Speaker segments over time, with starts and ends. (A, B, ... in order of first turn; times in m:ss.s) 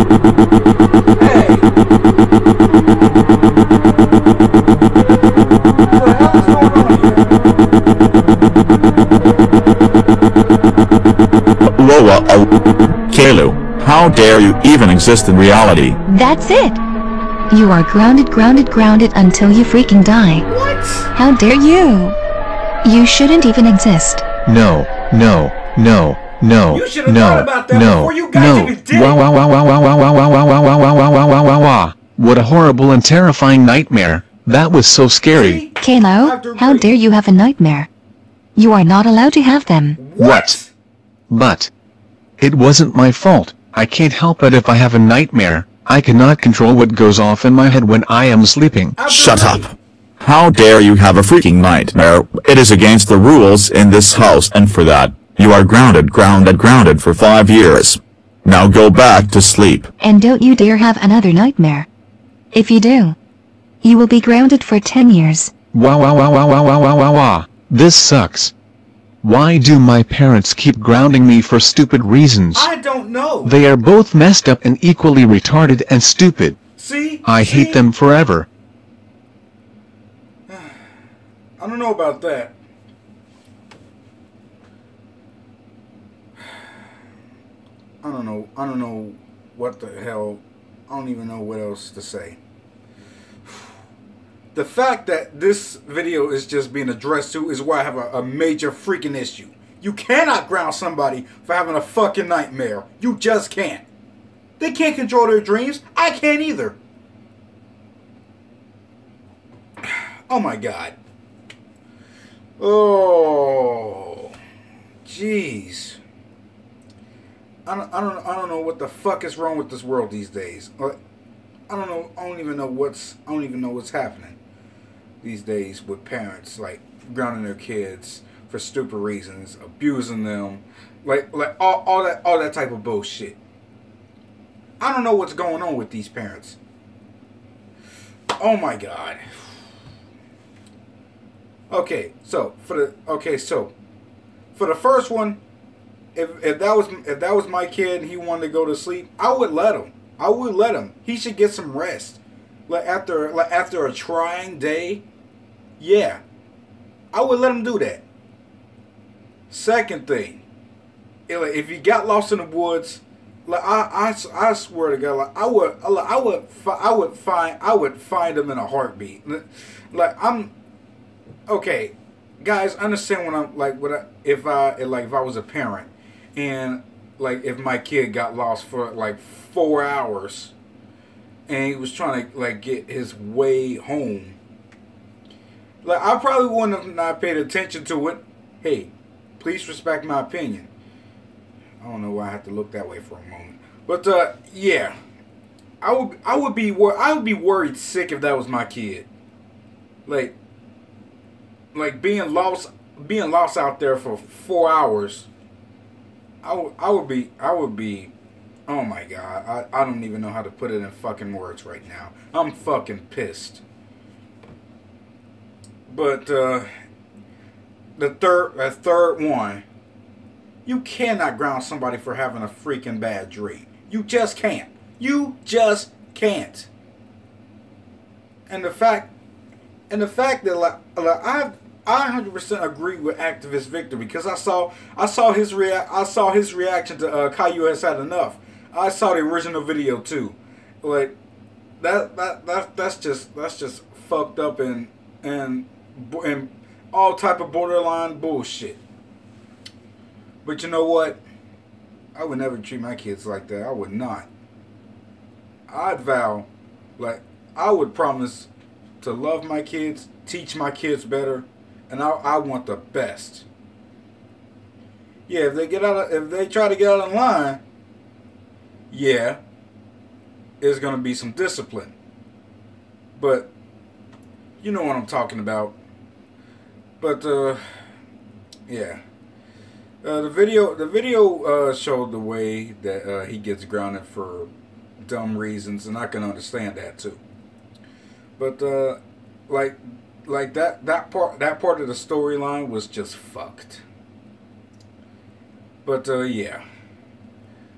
0:01.2-0:01.7 A
0:05.9-0:07.3 A
0:11.7-0:12.5 B
0:13.1-0:16.0 B
0:16.1-0:16.8 C
0:17.5-0:20.4 C
0:20.5-0:21.1 A
0:21.1-0:22.2 C
0:22.8-0:24.2 C
0:24.4-0:35.6 D
0:26.7-0:29.2 A
0:35.3-0:36.9 A
0:35.8-0:37.9 C
0:38.6-0:40.0 C
0:40.0-0:40.7 A
0:40.2-0:40.6 D
0:41.3-0:41.7 D
0:42.4-0:49.0 D
0:49.0-0:49.7 A
0:49.0-0:59.9 B
1:00.0-1:01.9 C
1:02.5-1:03.2 C
1:03.8-1:05.5 C
1:05.7-1:08.5 D
1:09.2-1:12.7 D
1:12.5-1:13.6 A
1:13.4-1:16.6 D
1:16.8-1:17.8 A
1:17.2-1:18.5 D
1:20.5-1:20.8 A
1:21.6-1:22.6 A
1:26.4-1:26.6 A
1:28.0-1:32.4 A
1:33.4-1:33.7 A
1:34.5-1:43.8 A
1:44.6-1:46.8 A
1:49.9-1:51.0 A
1:52.6-1:54.3 A
1:55.0-1:56.0 A
1:57.6-2:01.0 A
2:01.7-2:04.4 A
2:05.2-2:13.4 A
2:14.8-2:16.6 A
2:18.4-2:19.5 A
2:21.7-2:23.7 A
2:24.5-2:25.4 A
2:26.1-2:35.0 A
2:35.8-2:36.2 A
2:37.1-2:38.0 A
2:39.5-2:40.4 A
2:41.3-2:50.5 A
2:51.5-3:00.5 A
3:01.5-3:04.4 A
3:05.8-3:10.7 A
3:11.8-3:14.9 A
3:15.8-3:19.1 A
3:20.0-3:20.3 A
3:21.7-3:25.3 A
3:26.4-3:28.1 A
3:28.7-3:33.6 A
3:35.8-3:36.7 A
3:38.0-3:39.6 A
3:40.6-3:46.7 A
3:48.5-3:49.1 A
3:49.9-4:01.2 A
4:01.8-4:08.8 A
4:10.4-4:11.2 A
4:12.1-4:14.3 A
4:15.7-4:18.5 A
4:19.0-4:23.4 A
4:25.3-4:27.6 A
4:28.9-4:29.4 A
4:30.6-4:31.9 A
4:33.2-4:33.5 A
4:34.6-4:35.8 A
4:37.0-4:37.6 A
4:38.7-4:39.0 A
4:40.0-4:44.5 A
4:45.0-4:47.2 A
4:48.4-4:53.8 A
4:55.8-4:56.6 A